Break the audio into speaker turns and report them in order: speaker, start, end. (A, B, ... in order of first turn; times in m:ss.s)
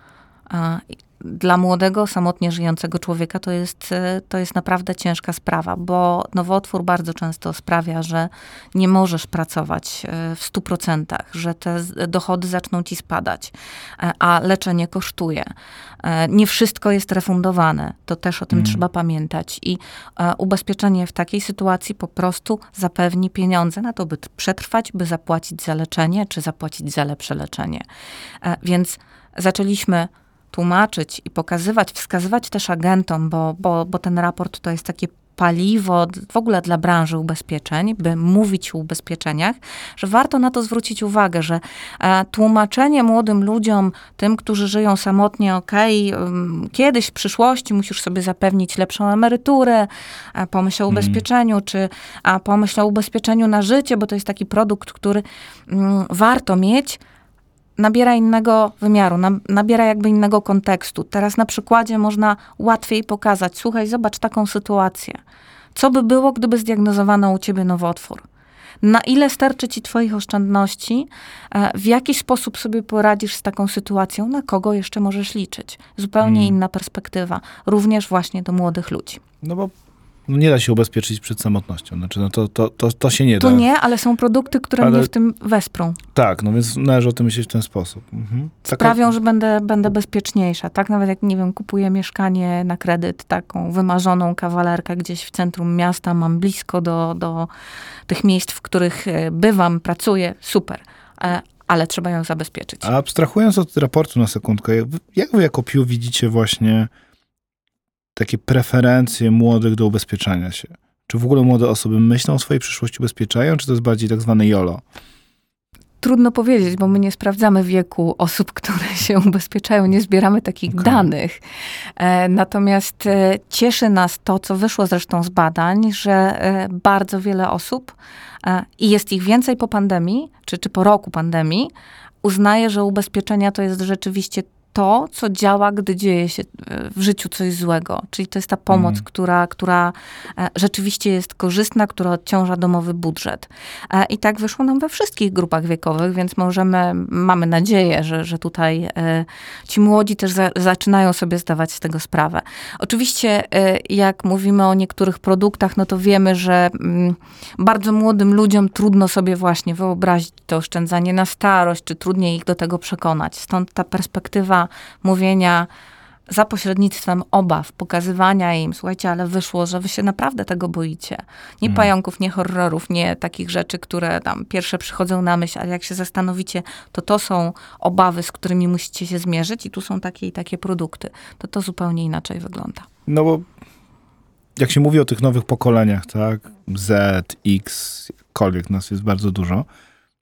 0:00.5-0:15.5 A
0:16.0-0:27.8 A
0:18.5-0:18.8 B
0:28.4-0:57.0 A
0:50.9-0:51.2 B
0:57.8-1:05.2 A
1:05.8-1:08.2 A
1:08.8-1:19.2 A
1:16.2-1:16.6 B
1:19.4-1:19.7 B
1:20.3-1:23.7 B
1:23.4-1:26.0 A
1:24.8-1:25.1 B
1:26.2-1:29.0 B
1:28.7-1:37.5 A
1:38.1-1:42.9 A
1:42.8-1:46.9 B
1:48.2-1:54.8 B
1:56.0-2:01.4 A
2:00.7-2:01.1 B
2:02.0-2:11.7 A
2:12.2-2:45.7 A
2:18.7-2:19.0 B
2:46.3-3:02.9 A
3:03.1-3:03.5 B
3:04.6-3:09.7 B